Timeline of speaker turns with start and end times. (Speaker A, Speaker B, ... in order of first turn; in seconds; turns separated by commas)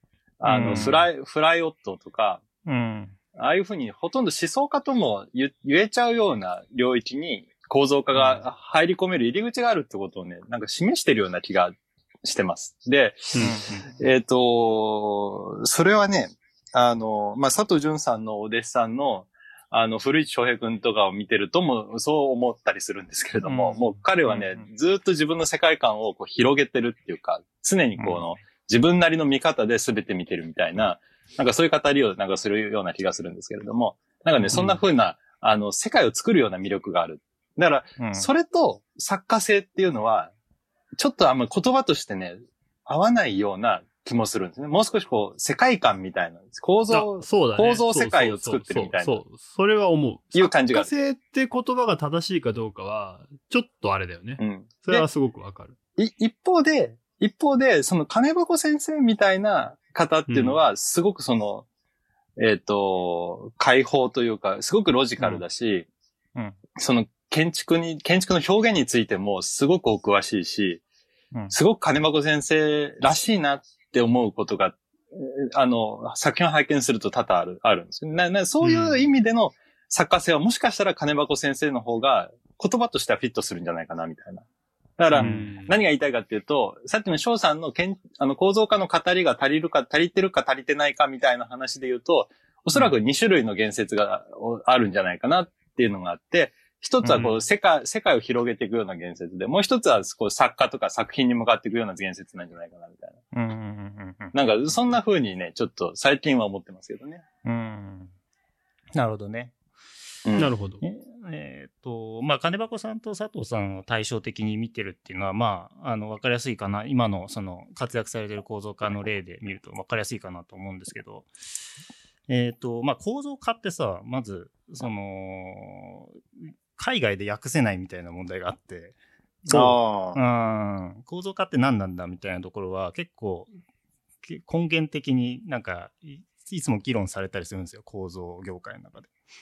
Speaker A: 0.4-2.4, Speaker B: 0.5-1.1, Speaker B: 2.6-3.1, Speaker A: 3.4-40.3, Speaker B: 13.4-13.9, Speaker B: 23.4-24.6, Speaker B: 28.0-28.2, Speaker B: 34.4-34.8, Speaker B: 38.0-38.3, Speaker A: 41.0-49.2, Speaker C: 46.9-55.7, Speaker A: 50.3-50.9, Speaker A: 54.4-55.0, Speaker A: 56.0-61.6, Speaker C: 60.3-60.6, Speaker A: 62.4-65.9, Speaker A: 66.8-70.8, Speaker A: 71.5-84.4, Speaker C: 78.6-79.0, Speaker A: 85.0-103.2, Speaker C: 85.1-85.7, Speaker B: 85.2-85.4, Speaker B: 97.0-97.3, Speaker B: 103.3-104.9, Speaker A: 104.3-107.2, Speaker B: 107.4-108.1, Speaker B: 109.0-109.5, Speaker A: 110.2-110.5, Speaker C: 110.4-110.8, Speaker B: 110.8-121.3, Speaker B: 122.3-126.2, Speaker B: 126.8-128.9, Speaker B: 129.4-133.5, Speaker A: 129.5-130.2, Speaker B: 134.2-139.1